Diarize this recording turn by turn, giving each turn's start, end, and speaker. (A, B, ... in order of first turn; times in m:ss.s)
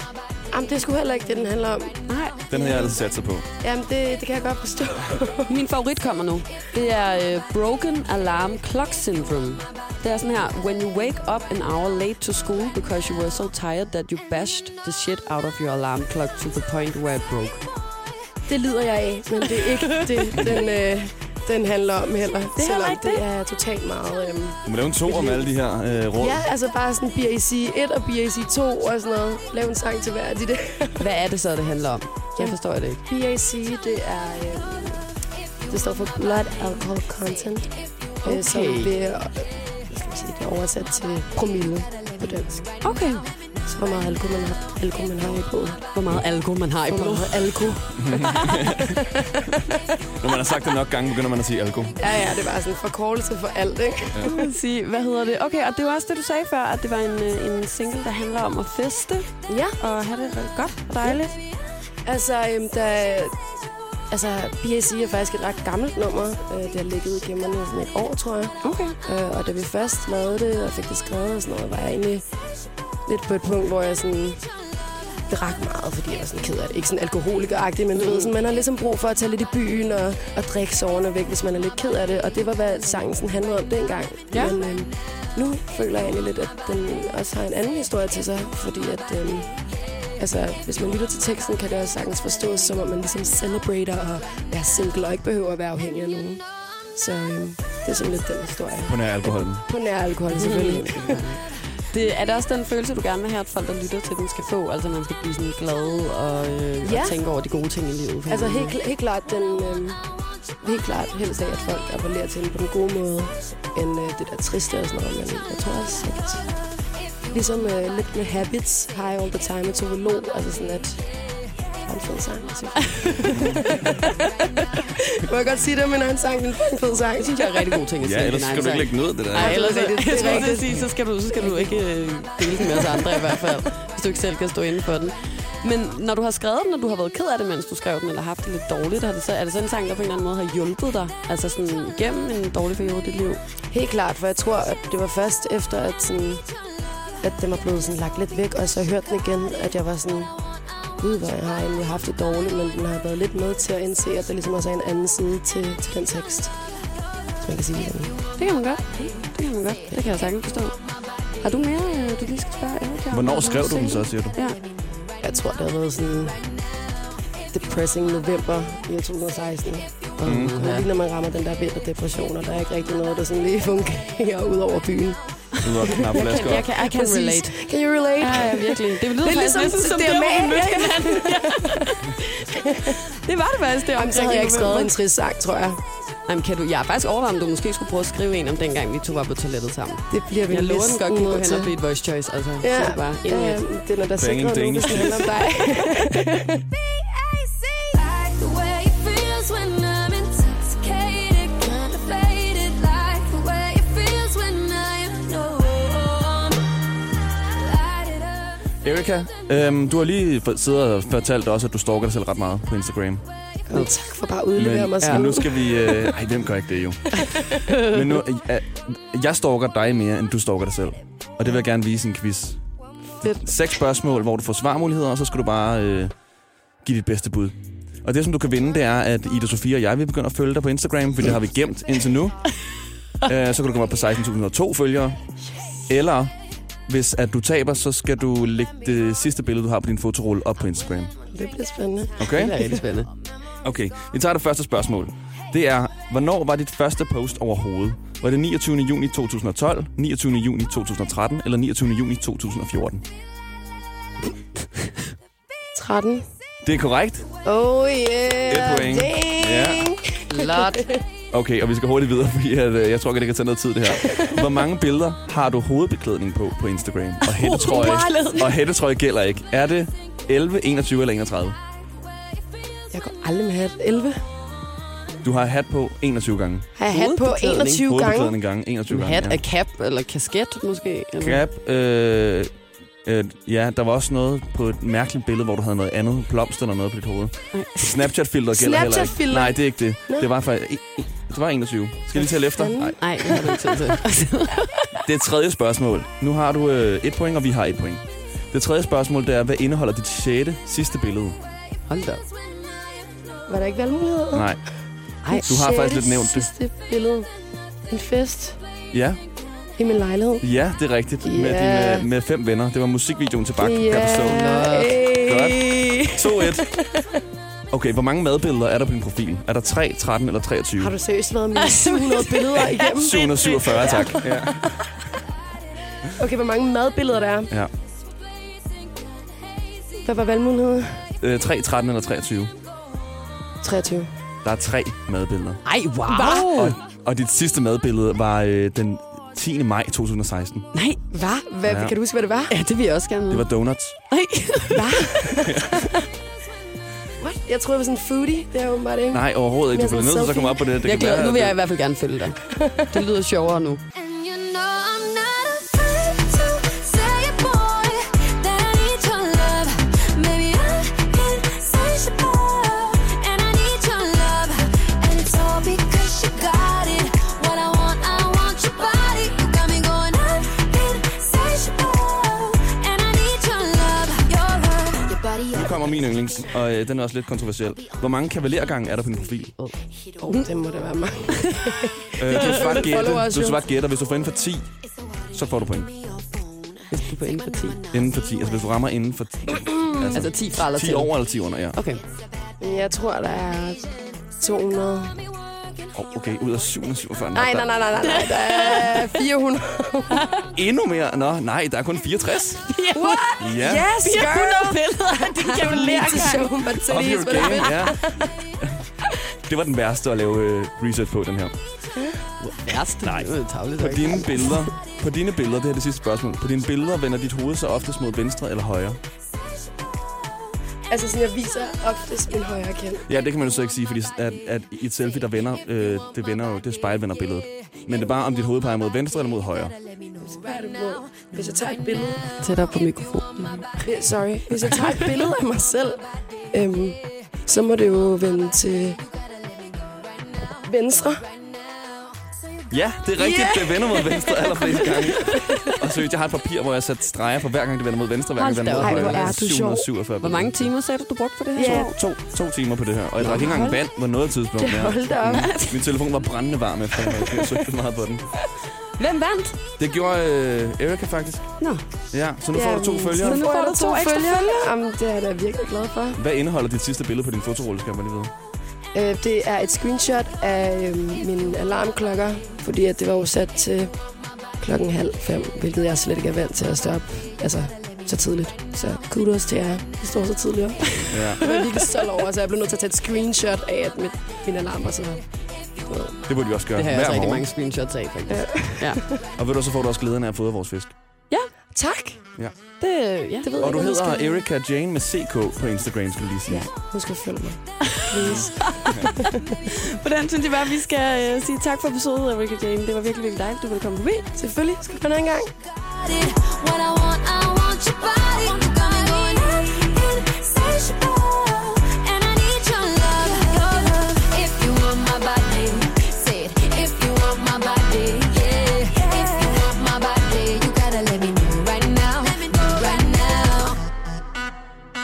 0:00.5-0:02.0 A
0:02.1-0:02.4 B
0:02.5-0:03.4 C
0:02.5-0:03.0 A
0:03.6-0:05.5 A
0:05.5-0:17.6 B
0:18.5-0:25.5 A
0:20.2-0:20.4 B
0:22.6-0:23.2 B
0:24.6-0:26.4 C
0:26.2-0:31.0 A
0:31.0-0:33.0 B
0:32.4-0:35.0 A
0:35.7-0:37.7 A
0:38.2-0:42.7 A
0:38.2-0:38.9 B
0:42.8-0:43.2 B
0:43.7-0:45.9 A
0:45.9-0:48.5 B
0:46.9-0:49.4 A
0:48.0-0:49.0 C
0:50.2-0:52.1 C
0:52.0-0:54.4 A
0:54.2-1:01.3 B
0:59.5-0:59.8 A
1:02.0-1:03.3 A
1:04.1-1:12.2 A
1:08.6-1:09.0 B
1:13.0-1:14.4 A
1:15.3-1:29.5 A
1:18.0-1:18.3 B
1:24.3-1:24.6 B
1:30.2-1:36.4 A
1:37.0-1:41.3 A
1:38.8-1:39.6 C
1:40.3-1:48.8 B
1:46.8-1:47.2 A
1:48.3-1:50.1 A
1:50.6-1:56.5 A
1:57.3-2:01.0 A
2:01.8-2:07.8 A
2:02.9-2:03.5 B
2:07.2-2:23.4 B
2:08.0-2:09.6 C
2:09.3-2:11.8 A
2:12.5-2:13.4 A
2:23.7-2:26.4 A
2:27.2-2:30.3 A
2:31.0-2:36.5 A
2:37.4-2:38.2 A
2:38.4-2:40.8 B
2:41.4-2:44.6 B
2:43.1-2:44.4 C
2:45.2-2:46.4 A
2:47.5-2:55.2 A
2:50.2-2:50.9 B
2:50.2-2:50.6 C
2:55.6-2:56.7 C
2:55.8-3:01.9 A
2:56.1-2:57.5 B
2:58.2-3:04.9 B
3:02.5-3:02.9 A
3:04.0-3:05.8 A
3:06.3-3:13.6 B
3:10.1-3:11.7 A
3:12.6-3:16.6 A
3:14.2-3:15.4 C
3:17.3-3:17.8 D
3:18.5-3:18.8 D
3:19.7-3:20.6 B
3:21.4-3:21.8 B
3:23.0-3:23.4 B
3:23.6-3:25.7 D
3:24.7-3:25.3 B
3:28.8-3:33.2 C
3:33.7-3:36.2 A
3:34.5-3:42.6 C
3:35.0-3:35.3 B
3:37.1-3:37.6 A
3:37.7-3:38.2 B
3:43.2-3:43.5 A
3:43.3-3:46.1 C
3:46.8-3:52.5 C
3:53.2-3:55.2 C
3:55.9-3:56.3 C
3:56.9-4:01.1 C
4:01.3-4:02.8 A
4:02.2-4:02.6 C
4:02.3-4:03.1 B
4:03.6-4:13.0 C
4:15.7-4:16.2 A
4:16.6-4:17.2 C
4:17.4-4:21.0 A
4:18.5-4:19.9 C
4:20.3-4:20.9 B
4:21.3-4:31.6 C
4:24.0-4:24.3 A
4:27.3-4:28.5 B
4:32.9-4:34.2 A
4:35.2-4:36.7 C
4:36.8-4:38.3 A
4:36.9-4:37.8 B
4:37.8-4:39.4 C
4:38.9-4:41.4 B
4:41.2-4:42.5 C
4:43.0-4:53.3 C
4:47.5-4:48.1 B
4:48.5-4:50.3 A
4:52.1-4:53.9 A
4:53.0-4:55.0 B
4:55.0-5:01.4 C
5:01.9-5:02.2 B
5:03.5-5:04.5 A
5:04.3-5:04.6 C
5:05.2-5:05.5 B
5:05.3-5:07.3 A
5:05.4-5:06.5 C
5:07.9-5:08.6 A
5:08.9-5:09.2 C
5:09.8-5:10.5 A
5:10.4-5:14.5 C
5:11.2-5:12.1 A
5:13.6-5:15.5 A
5:14.2-5:15.0 B
5:15.2-5:16.8 C
5:15.6-5:16.2 B
5:16.5-5:17.1 A
5:17.7-5:20.9 C
5:20.8-5:24.9 A
5:21.5-5:22.8 B
5:22.8-5:24.7 C
5:26.1-5:27.5 A
5:30.0-5:31.1 A
5:31.2-5:32.5 C
5:33.6-5:34.1 A
5:34.4-5:35.6 C
5:35.6-5:36.8 B
5:36.1-5:36.6 A
5:36.5-5:40.6 C
5:40.7-5:41.0 B
5:41.1-5:42.5 A
5:41.6-5:41.9 C
5:42.5-5:43.4 B
5:43.3-5:43.9 C
5:44.1-5:45.2 B
5:44.7-5:45.9 A
5:45.4-5:45.8 C
5:47.2-5:50.7 A
5:49.1-5:51.6 C
5:50.8-5:53.8 B
5:52.5-5:53.0 A
5:54.0-5:57.9 A
5:55.9-6:12.2 D
5:58.8-5:59.6 A
6:00.3-6:01.5 A
6:02.2-6:02.5 A
6:12.5-6:14.2 B
6:13.5-6:15.0 D
6:15.2-6:15.6 A
6:15.5-6:19.5 C
6:19.6-6:20.5 B
6:20.2-6:23.6 A
6:21.3-6:21.7 B
6:22.2-6:24.7 C
6:22.4-6:22.8 B
6:25.3-6:25.9 C
6:26.9-6:27.8 B
6:27.9-6:31.8 C
6:30.1-6:31.1 B
6:31.7-6:32.0 B
6:32.6-6:35.3 A
6:35.9-6:37.8 C
6:37.3-6:40.3 A
6:38.0-6:39.2 B
6:40.1-6:40.5 B
6:40.5-6:42.6 C
6:42.6-6:46.8 B
6:42.9-6:48.3 A
6:43.4-6:43.9 C
6:46.8-6:48.0 C
6:47.3-6:47.8 B
6:49.4-6:51.5 C
6:51.9-6:52.2 A
6:52.4-6:54.7 B
6:53.0-6:59.0 C
7:00.9-7:03.0 A
7:03.0-7:09.7 C
7:10.2-7:12.2 A
7:12.4-7:13.8 B
7:13.8-7:16.0 A
7:14.7-7:15.0 B
7:16.5-7:19.0 A
7:20.6-7:21.2 A
7:22.7-7:30.7 C
7:23.2-7:25.8 A
7:28.4-7:29.4 B
7:28.8-7:29.8 A
7:30.2-7:32.0 B
7:31.5-7:38.3 C
7:31.6-7:31.9 A
7:33.2-7:33.8 A
7:34.6-7:35.5 A
7:35.3-7:35.8 B
7:36.9-7:37.7 A
7:39.0-7:39.6 B
7:39.8-7:41.5 C
7:42.1-7:43.4 C
7:42.5-7:46.2 A
7:43.2-7:44.7 B
7:46.2-7:48.3 C
7:48.9-7:53.9 A
7:54.6-8:05.2 A
8:01.0-8:01.7 B
8:01.1-8:01.4 C
8:05.8-8:06.2 A
8:06.3-8:07.4 C
8:06.7-8:09.0 B
8:08.3-8:09.2 A
8:09.3-8:10.9 C
8:11.7-8:12.2 A
8:12.8-8:13.5 B
8:13.4-8:14.4 A
8:13.6-8:16.7 C
8:16.5-8:19.4 A
8:18.1-8:19.0 B
8:18.2-8:19.0 C
8:19.6-8:24.3 B
8:24.3-8:25.5 A
8:26.1-8:28.9 D
8:26.4-8:27.3 B
8:28.1-8:30.1 B
8:30.2-8:31.2 D
8:31.6-8:34.6 B
8:32.7-8:32.9 D
8:34.4-8:38.2 D
8:38.7-8:39.7 B
8:39.8-8:41.8 D
8:41.3-8:43.7 B